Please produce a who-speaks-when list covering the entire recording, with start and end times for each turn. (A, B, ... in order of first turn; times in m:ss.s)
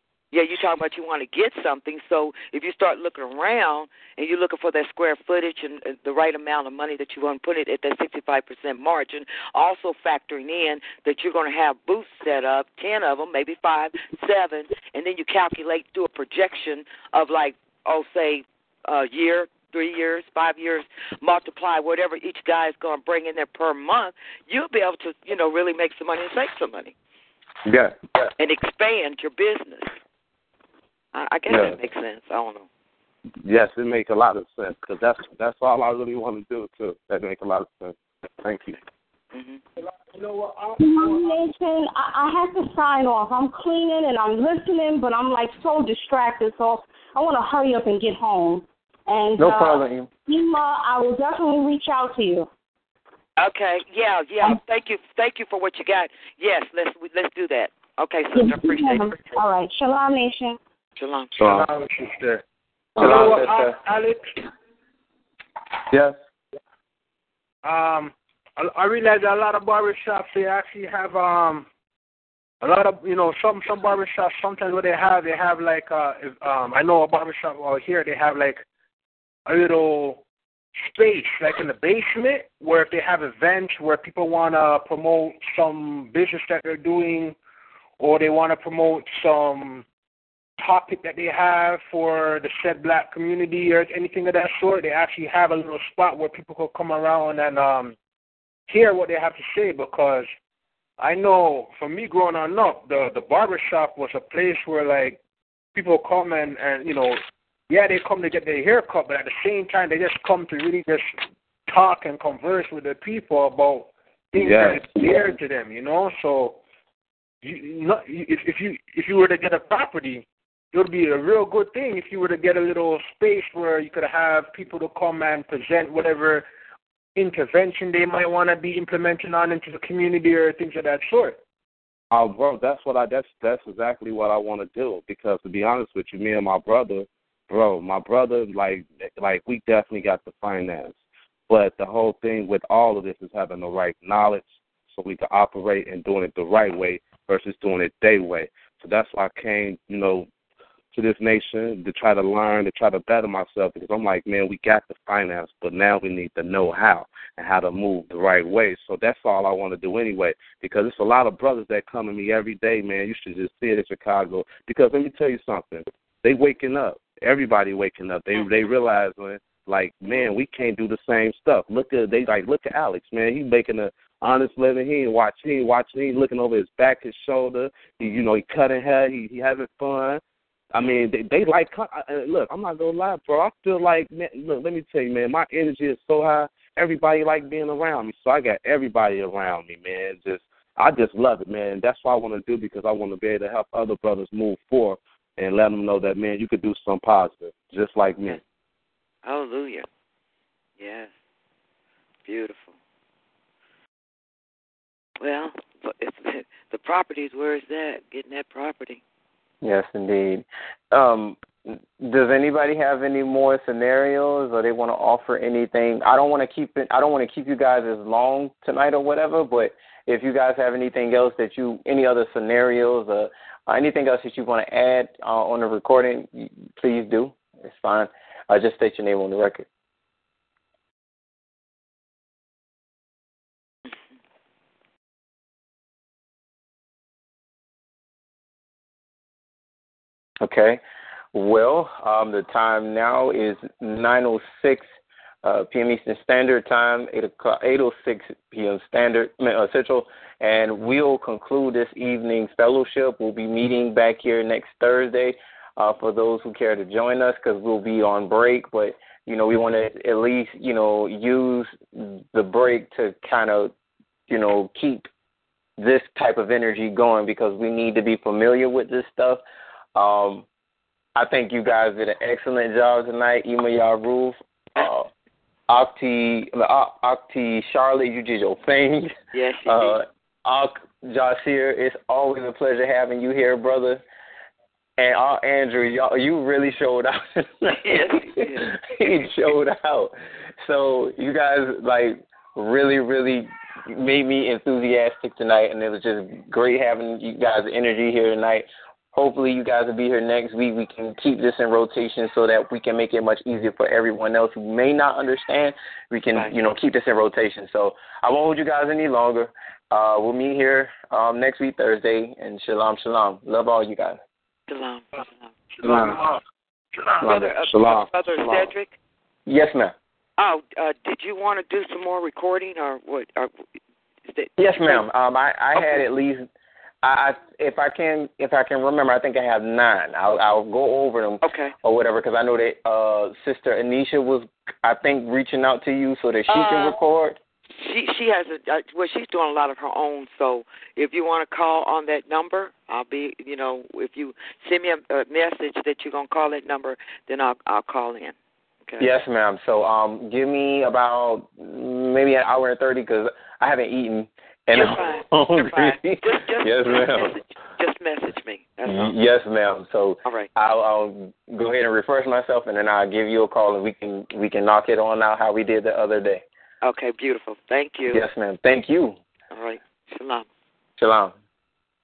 0:00.3-0:26.9 A
0:27.7-0:27.9 B
0:28.4-0:29.9 A
0:31.1-0:32.7 A
0:31.5-0:31.8 B
0:33.4-0:38.8 B
0:39.3-0:39.6 A
0:40.1-0:41.5 C
0:40.8-0:52.5 D
0:49.4-0:50.1 E
0:53.4-0:59.1 A
0:58.3-1:00.6 D
1:01.0-1:01.3 A
1:01.4-1:01.7 B
1:01.4-1:02.4 C
1:03.0-1:03.8 E
1:03.0-1:04.4 C
1:07.6-1:11.7 C
1:12.6-1:18.6 C
1:19.4-1:20.2 C
1:20.8-1:27.3 C
1:28.0-1:29.8 C
1:30.6-1:38.0 C
1:38.7-1:40.3 C
1:41.0-1:45.2 C
1:45.7-1:56.6 C
1:54.4-1:54.9 B
1:57.4-2:06.4 C
2:07.2-2:11.4 C
2:12.1-2:30.3 B
2:30.9-3:00.2 B
3:00.7-3:18.4 B
3:19.2-3:19.8 A
3:20.8-3:21.1 A
3:22.2-3:22.7 A
3:25.2-3:29.0 A
3:29.6-3:49.6 E
4:00.4-4:00.8 E
4:01.3-4:04.8 E
4:05.4-4:23.7 E
4:24.3-4:25.1 E
4:25.8-4:29.4 E
4:29.9-4:30.4 E
4:31.1-4:35.1 E
4:35.7-4:39.1 E
4:39.3-4:40.0 A
4:39.7-4:44.0 E
4:45.0-5:14.2 E
4:47.8-4:48.8 A
5:14.7-5:15.5 A
5:15.8-5:16.4 C
5:15.8-5:16.2 E
5:17.2-5:17.6 E
5:17.2-5:18.9 A
5:17.7-5:18.7 B
5:19.4-5:19.9 E
5:20.4-5:23.5 A
5:24.3-5:25.0 A
5:24.6-5:26.5 E
5:27.0-5:37.4 E
5:31.4-5:31.7 A
5:36.5-5:37.0 A
5:37.7-5:48.3 A
5:49.0-5:57.3 E
5:54.7-5:59.1 A
5:58.9-6:06.4 E
6:06.8-6:08.2 A
6:08.1-6:09.2 E
6:09.5-6:10.5 A
6:11.0-6:11.3 E